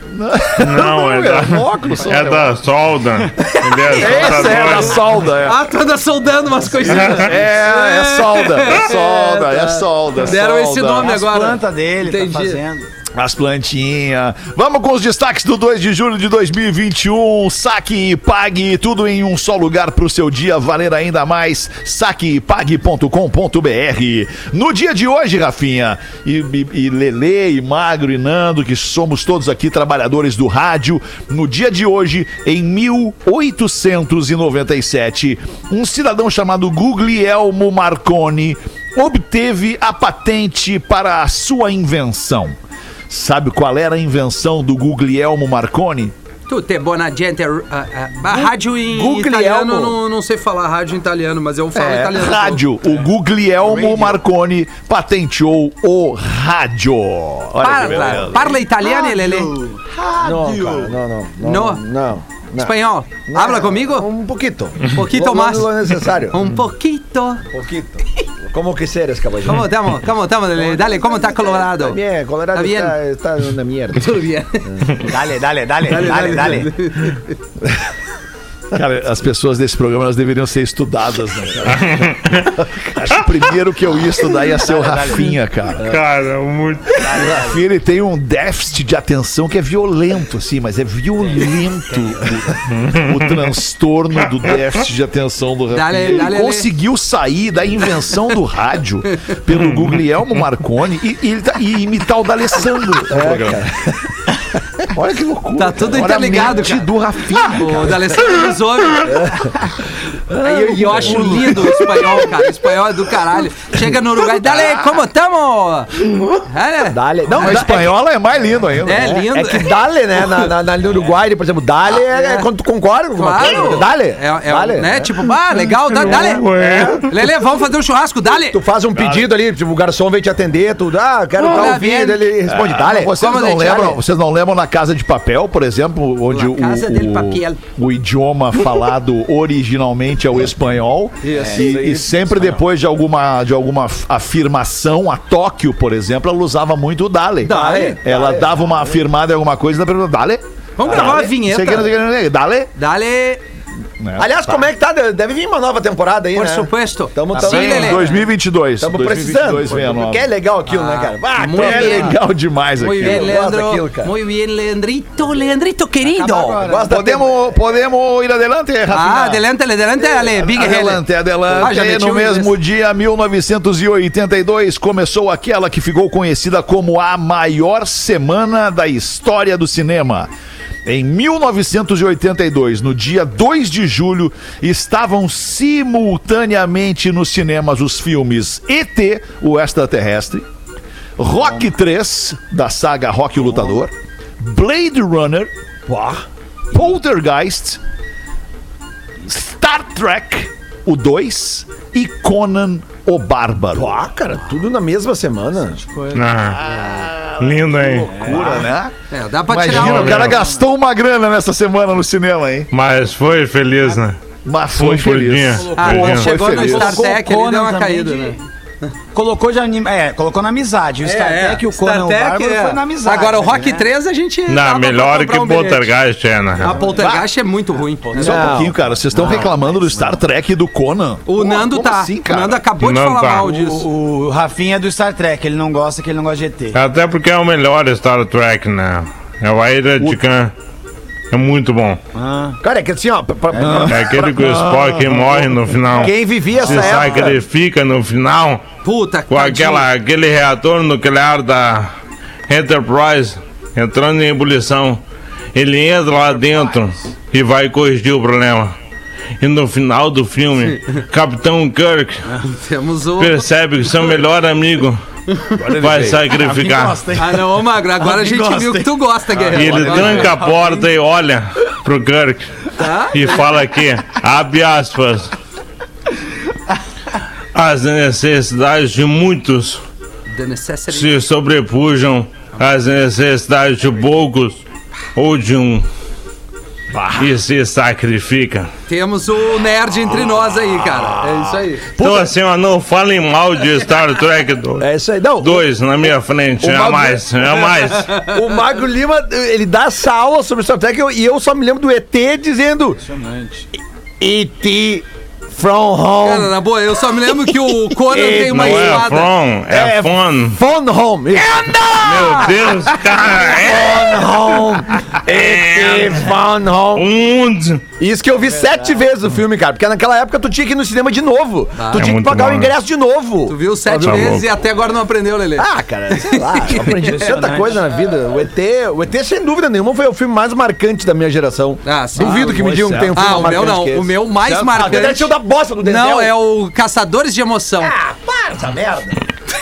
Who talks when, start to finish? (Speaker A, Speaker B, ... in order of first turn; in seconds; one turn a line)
Speaker A: 0.1-2.6
Speaker B: 0.6-5.1
Speaker C: 3.8-4.7
Speaker A: 3.9-5.7
Speaker C: 5.4-12.6
Speaker A: 6.9-11.1
Speaker D: 11.0-12.8
Speaker A: 13.1-42.5
Speaker A: 43.1-46.1
Speaker C: 46.5-52.6
Speaker E: 48.3-50.0
Speaker A: 51.7-58.6
Speaker D: 53.6-54.1
Speaker C: 57.6-59.5
Speaker D: 58.7-61.0
Speaker E: 60.1-62.8
Speaker C: 61.4-61.8
Speaker C: 62.6-64.1
Speaker E: 63.3-66.4
Speaker C: 64.9-67.4
Speaker E: 67.5-69.7
Speaker C: 69.4-72.0
Speaker E: 70.6-75.1
Speaker C: 72.5-72.9
Speaker C: 73.9-74.6
Speaker D: 75.0-76.7
Speaker C: 75.8-77.3
Speaker A: 78.7-86.0
Speaker B: 81.7-82.6
Speaker D: 84.5-85.3
Speaker B: 85.8-87.0
Speaker D: 87.0-87.6
Speaker A: 87.2-103.7
Speaker D: 91.5-92.4
Speaker B: 92.8-93.4
Speaker C: 95.7-96.7
Speaker E: 103.1-103.9
Speaker A: 104.9-108.3
Speaker C: 105.6-109.3
Speaker E: 109.1-109.5
Speaker A: 110.3-112.3
Speaker C: 110.4-117.8
Speaker E: 116.9-117.9
Speaker A: 117.3-119.2
Speaker C: 118.8-119.7
Speaker E: 118.9-125.2
Speaker C: 122.0-122.5
Speaker C: 123.2-128.6
Speaker B: 125.8-127.1
Speaker E: 126.4-127.0
Speaker E: 128.5-134.0
Speaker A: 128.9-129.3
Speaker C: 131.4-132.3
Speaker A: 132.4-152.7
Speaker C: 133.2-133.9
Speaker C: 136.3-137.6
Speaker C: 141.2-141.8
Speaker E: 141.3-141.9
Speaker D: 141.4-142.5
Speaker C: 147.4-148.0
Speaker E: 147.4-148.5
Speaker C: 150.8-151.9
Speaker C: 152.8-153.4
Speaker A: 154.0-154.7
Speaker E: 154.2-158.1
Speaker C: 156.3-158.3
Speaker A: 157.3-160.3
Speaker E: 158.8-162.2
Speaker C: 160.7-162.2
Speaker A: 161.5-163.4
Speaker C: 162.8-166.6
Speaker E: 163.0-164.1
Speaker D: 166.0-166.9
Speaker E: 166.6-167.3
Speaker A: 166.8-169.4
Speaker C: 168.9-172.6
Speaker A: 170.0-180.3
Speaker A: 180.8-190.4
Speaker A: 191.2-195.5
Speaker E: 195.9-196.2
Speaker A: 196.7-197.8
Speaker A: 199.2-204.0
Speaker E: 203.7-205.8
Speaker D: 205.7-206.2
Speaker B: 206.1-206.6
Speaker A: 206.5-208.9
Speaker B: 207.4-208.1
Speaker D: 208.1-208.7
Speaker C: 209.1-210.3
Speaker A: 209.5-212.7
Speaker B: 209.7-210.3
Speaker B: 212.7-214.2
Speaker A: 214.4-217.1
Speaker B: 214.7-216.3
Speaker D: 215.6-218.4
Speaker C: 215.8-218.4
Speaker D: 219.1-223.9
Speaker C: 221.0-225.9
Speaker B: 224.5-226.8
Speaker C: 226.6-228.6
Speaker D: 226.6-226.9
Speaker A: 226.8-227.2
Speaker A: 228.1-232.6
Speaker E: 228.2-230.1
Speaker C: 231.3-233.9
Speaker B: 232.8-233.4
Speaker D: 233.4-236.8
Speaker B: 236.7-240.5
Speaker B: 241.3-242.0
Speaker D: 242.1-242.6
Speaker E: 242.6-244.3
Speaker A: 243.5-246.0
Speaker B: 243.9-248.6
Speaker E: 245.9-247.4
Speaker A: 246.6-247.2
Speaker C: 248.8-249.8
Speaker B: 249.3-251.9
Speaker B: 252.5-255.0
Speaker B: 255.5-258.7
Speaker B: 259.4-262.3
Speaker C: 262.4-263.4
Speaker B: 263.2-265.0
Speaker A: 265.6-266.4
Speaker B: 265.8-267.0
Speaker D: 266.3-268.9
Speaker C: 267.1-270.4
Speaker A: 269.4-270.4
Speaker B: 269.5-275.3
Speaker D: 269.6-270.9
Speaker C: 272.8-273.4
Speaker B: 277.5-279.8
Speaker C: 280.3-281.2
Speaker B: 280.9-284.6
Speaker B: 285.1-285.9
Speaker A: 286.9-287.3
Speaker B: 287.2-288.7
Speaker C: 288.9-291.9
Speaker A: 290.9-291.6
Speaker B: 292.0-294.9
Speaker E: 292.0-292.3
Speaker E: 294.8-295.7
Speaker B: 295.4-298.1
Speaker E: 296.6-303.0
Speaker D: 303.0-303.7
Speaker E: 304.2-306.5
Speaker C: 306.2-309.3
Speaker E: 308.0-309.1
Speaker B: 308.5-310.6
Speaker E: 309.7-317.1
Speaker B: 311.9-314.3
Speaker B: 315.3-316.3
Speaker B: 316.9-317.8
Speaker E: 318.0-324.4
Speaker D: 318.5-318.9
Speaker C: 321.8-322.1
Speaker B: 321.9-322.7
Speaker C: 323.5-327.4
Speaker B: 323.9-324.5
Speaker E: 325.6-336.3
Speaker D: 326.8-327.9
Speaker C: 331.8-335.3
Speaker A: 332.3-333.4
Speaker A: 334.4-335.1
Speaker C: 335.8-337.9
Speaker E: 337.8-339.2